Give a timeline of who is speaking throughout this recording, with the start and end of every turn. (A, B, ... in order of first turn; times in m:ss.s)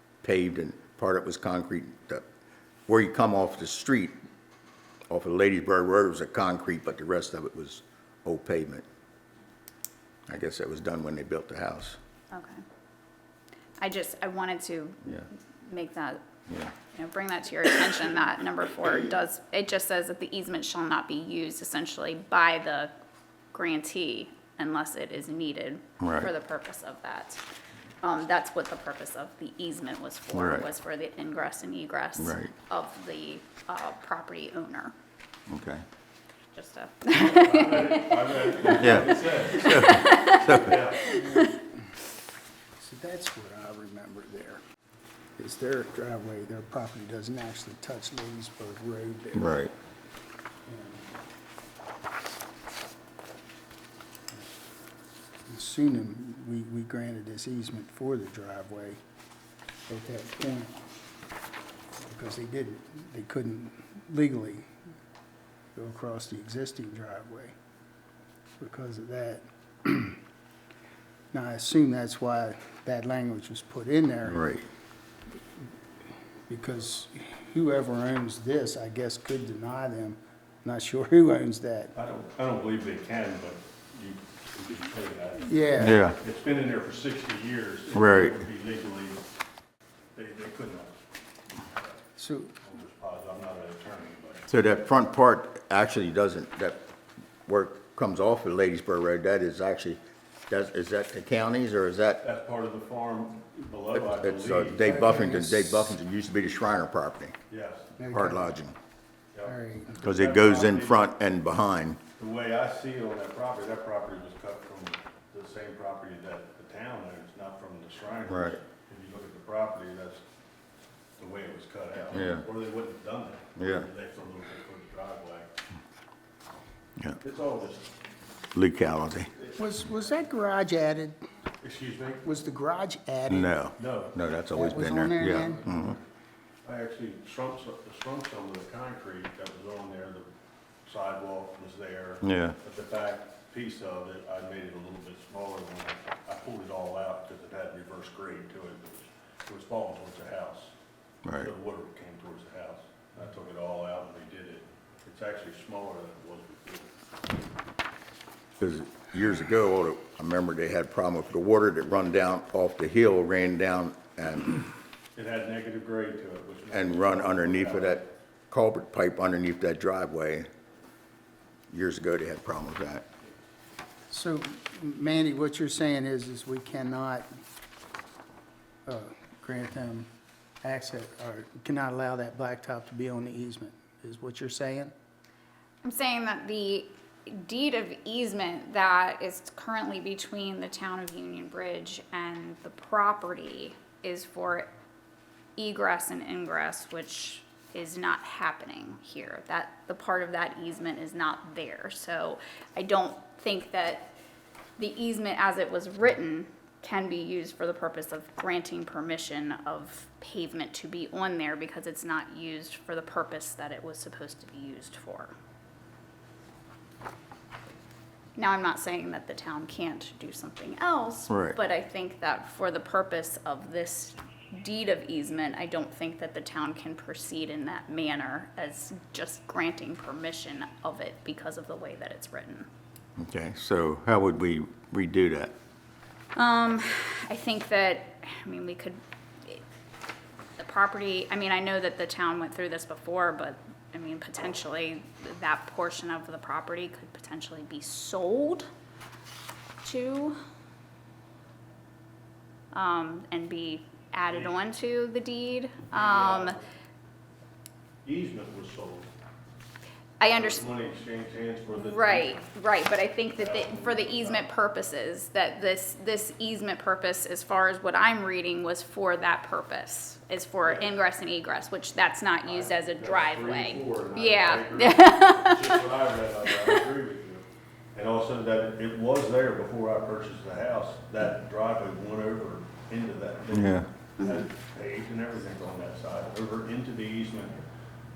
0:00.2-0:02.2 A
0:02.9-0:04.1 A
0:05.1-0:08.8 A
0:10.3-0:12.0 A
0:12.3-0:12.6 B
0:13.8-0:16.2 B
0:16.9-0:22.9 B
0:23.5-0:27.4 B
0:26.0-0:26.3 A
0:28.0-0:34.9 B
0:30.3-0:30.7 A
0:32.2-0:32.5 A
0:35.5-0:35.8 A
0:36.5-0:41.5 B
0:37.1-0:41.2 C
0:38.8-0:40.8 A
0:41.1-0:41.6 D
0:42.8-0:44.6 D
0:45.4-0:49.6 D
0:49.3-0:49.7 A
0:50.7-0:51.1 D
0:55.5-0:59.0 D
0:59.9-1:00.8 D
1:02.1-1:04.7 D
1:05.7-1:07.5 D
1:08.6-1:10.2 D
1:11.3-1:14.4 D
1:14.2-1:14.6 A
1:16.5-1:21.9 D
1:21.9-1:29.2 C
1:25.4-1:26.0 D
1:25.8-1:26.2 A
1:27.9-1:28.4 A
1:30.1-1:31.0 C
1:31.6-1:32.0 C
1:32.2-1:32.5 D
1:32.6-1:34.5 C
1:34.5-1:36.8 A
1:37.4-1:42.2 A
1:42.2-1:44.9 C
1:43.9-1:47.3 A
1:44.8-1:46.0 D
1:47.5-1:47.9 C
1:48.0-1:48.5 D
1:48.1-1:48.7 A
1:49.3-1:51.1 C
1:49.4-1:50.0 D
1:50.0-1:52.0 A
1:52.2-2:00.2 C
1:58.3-1:58.6 A
2:01.2-2:05.5 C
2:02.1-2:02.4 A
2:03.6-2:03.9 A
2:07.2-2:07.9 C
2:08.5-2:09.3 A
2:09.6-2:11.2 D
2:11.6-2:12.2 C
2:12.2-2:13.5 D
2:13.3-2:16.0 A
2:13.8-2:14.1 C
2:14.5-2:15.6 D
2:16.6-2:20.2 C
2:20.8-2:30.7 C
2:22.2-2:22.6 A
2:31.2-2:31.5 A
2:31.4-2:36.9 C
2:38.6-2:44.6 A
2:45.1-2:48.0 C
2:46.7-2:50.5 A
2:51.7-2:53.0 A
2:54.1-2:57.3 D
2:58.8-3:00.1 D
3:00.6-3:04.9 D
3:05.8-3:14.7 B
3:15.6-3:24.1 B
3:24.8-3:35.3 B
3:38.4-3:52.7 B
3:41.3-3:41.6 A
3:53.2-3:55.5 A
3:56.4-3:59.6 B
4:00.6-4:08.7 B
4:09.8-4:10.4 B
4:12.7-4:16.6 B
4:15.9-4:16.6 C
4:18.0-4:19.1 C
4:20.2-4:20.6 B
4:20.3-4:22.5 C
4:21.7-4:35.8 B
4:23.4-4:24.5 C
4:30.6-4:31.0 C
4:32.5-4:47.6 C
4:36.4-4:36.8 B
4:43.5-4:43.9 A
4:44.2-4:44.5 B